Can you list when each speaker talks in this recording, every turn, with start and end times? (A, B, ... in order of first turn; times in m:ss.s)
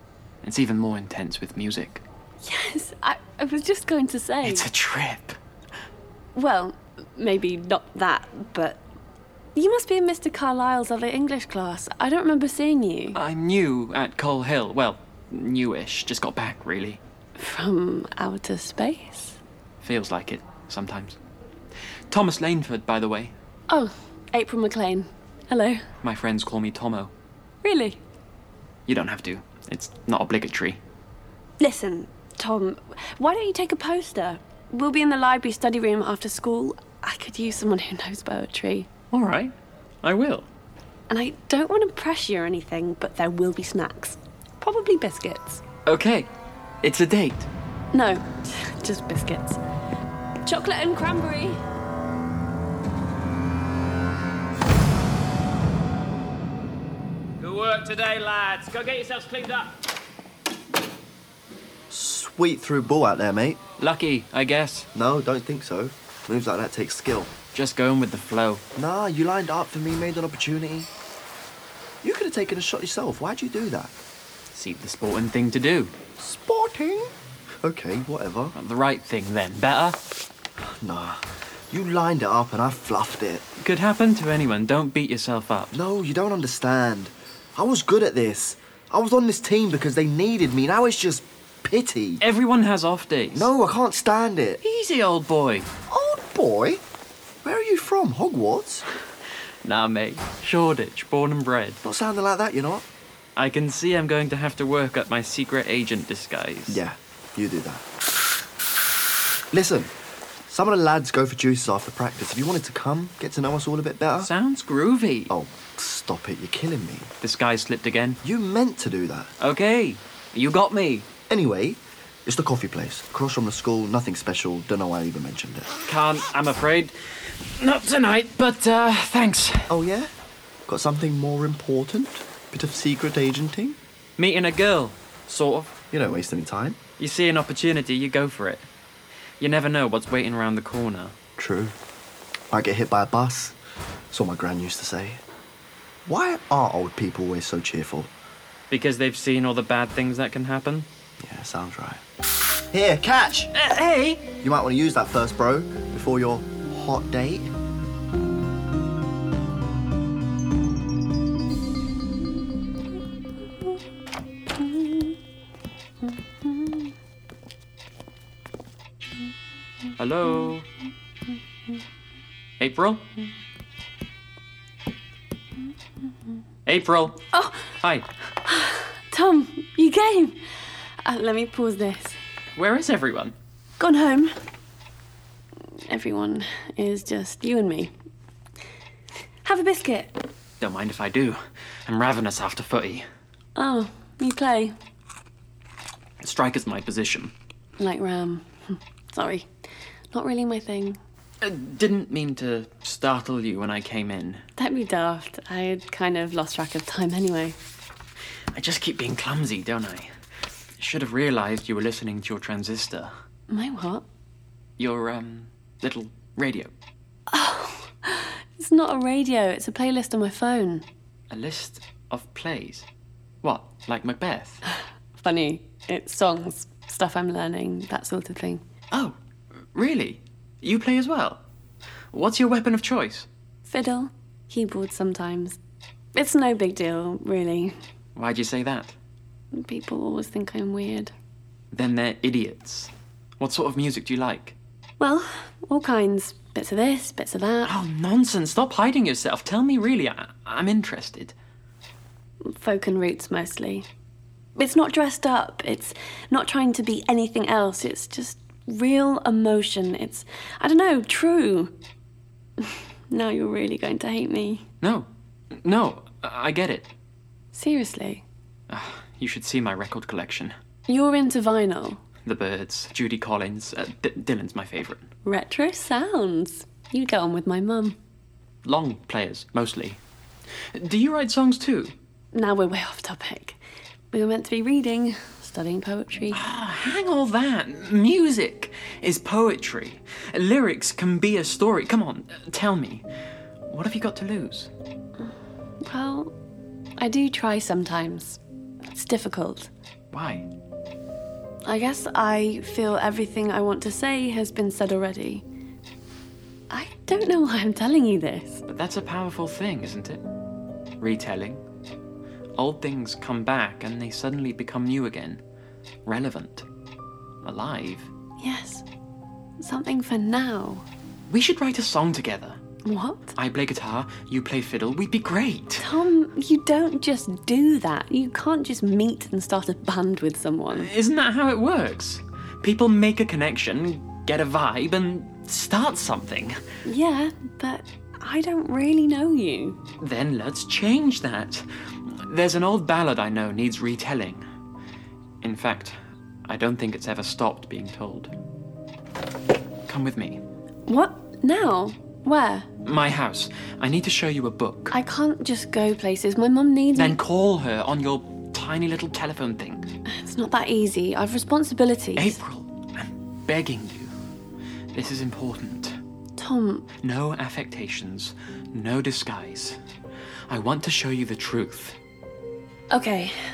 0:00.4-0:02.0 A
0:02.4-0:04.6 B
0:04.4-0:05.4 A
0:06.3-0:08.8 B
0:09.5-0:13.2 B
0:13.1-0:17.0 A
0:17.4-0:19.4 B
0:19.8-0:21.2 A
0:22.1-0:23.3 A
0:23.7-0:25.8 B
0:26.0-0:27.1 A
0:27.6-0:28.0 B
0:28.9-0:30.8 A
0:31.6-0:38.9 B
0:39.1-0:40.5 A
0:41.1-0:45.6 B
0:45.8-0:46.3 A
0:46.8-0:47.5 A
0:47.9-0:49.6 B
0:50.4-0:51.6 B
0:57.4-0:59.6 C
1:01.9-1:03.6 D
1:03.8-1:04.9 A
1:04.9-1:07.3 D
1:07.5-1:08.6 A
1:08.8-1:10.9 D
1:12.0-1:13.9 D
1:14.5-1:15.9 A
1:16.2-1:17.1 D
1:17.6-1:18.5 D
1:18.5-1:20.0 A
1:20.8-1:23.4 D
1:23.6-1:25.7 A
1:25.7-1:32.2 D
1:32.2-1:33.5 A
1:33.3-1:34.6 D
1:34.6-1:35.7 A
1:35.9-1:36.8 D
1:37.4-1:38.8 D
1:39.6-1:41.8 A
1:41.8-1:42.8 D
1:43.4-1:46.8 A
1:46.7-1:47.8 D
1:49.5-1:49.9 D
1:50.5-1:54.3 D
1:54.2-1:55.3 A
1:55.3-1:57.1 D
1:57.2-1:58.2 A
1:58.2-1:59.3 D
1:59.4-2:01.1 A
2:01.3-2:05.7 D
2:05.8-2:09.7 A
2:09.7-2:10.1 D
2:10.7-2:13.8 D
2:14.2-2:15.8 A
2:15.9-2:16.8 D
2:17.0-2:18.7 A
2:19.4-2:21.2 A
2:21.4-2:21.8 D
2:22.5-2:23.5 D
2:24.1-2:25.2 D
2:26.0-2:28.1 D
2:28.7-2:30.9 A
2:31.2-2:32.0 D
2:32.7-2:33.5 D
2:33.5-2:34.3 A
2:34.4-2:37.5 D
2:50.0-2:50.7 A
2:52.6-2:53.1 A
2:56.6-2:57.2 A
2:57.3-2:57.7 B
2:57.8-2:58.1 A
2:58.5-3:00.4 B
3:01.0-3:02.2 B
3:02.6-3:03.3 A
3:03.8-3:04.4 B
3:05.9-3:07.9 B
3:09.4-3:10.1 B
3:10.6-3:13.0 A
3:13.6-3:14.7 B
3:16.2-3:17.3 A
3:17.8-3:19.5 B
3:20.1-3:21.0 B
3:21.4-3:24.4 A
3:24.6-3:27.6 B
3:28.5-3:30.1 A
3:30.8-3:33.1 A
3:33.5-3:34.0 B
3:34.8-3:36.7 A
3:37.3-3:40.8 B
3:41.3-3:42.8 A
3:43.4-3:44.6 A
3:45.2-3:48.6 B
3:49.7-3:51.4 A
3:52.1-3:53.3 A
3:53.6-3:55.6 B
3:56.1-3:57.7 B
3:58.1-3:58.9 A
3:59.5-4:01.1 B
4:01.7-4:04.5 A
4:05.0-4:07.7 B
4:07.6-4:11.3 A
4:12.5-4:13.8 B
4:14.6-4:21.7 B
4:22.6-4:24.6 B
4:24.8-4:26.9 A
4:27.5-4:28.2 B
4:28.7-4:30.5 A
4:30.9-4:32.0 B
4:32.2-4:35.1 A
4:35.2-4:38.0 B
4:38.6-4:40.0 A
4:40.7-4:41.9 A
4:42.3-4:43.6 B
4:44.1-4:46.4 B
4:46.3-4:53.0 A
4:53.7-4:54.7 A
4:55.8-4:56.3 B
4:57.0-4:58.4 B
4:58.9-4:59.7 B
5:00.1-5:00.5 A
5:01.6-5:05.4 B
5:06.7-5:08.6 B
5:08.7-5:10.2 A
5:11.0-5:11.6 A
5:12.6-5:15.4 A
5:16.0-5:16.6 A
5:17.4-5:18.1 A
5:18.4-5:18.8 B
5:19.6-5:20.8 B
5:21.3-5:22.6 A
5:22.8-5:23.3 B
5:23.3-5:25.9 A
5:25.8-5:30.9 B
5:30.7-5:36.6 A
5:36.8-5:39.8 B
5:40.0-5:44.4 A
5:45.4-5:48.3 A
5:49.9-5:50.4 A
5:50.9-5:52.7 B
5:52.8-5:54.9 A
5:54.9-5:57.2 B
5:56.9-5:59.9 A
6:00.1-6:02.3 B
6:02.2-6:04.1 A
6:04.9-6:06.0 A
6:06.4-6:06.9 B
6:07.0-6:09.8 A
6:10.5-6:12.0 A
6:12.9-6:13.3 B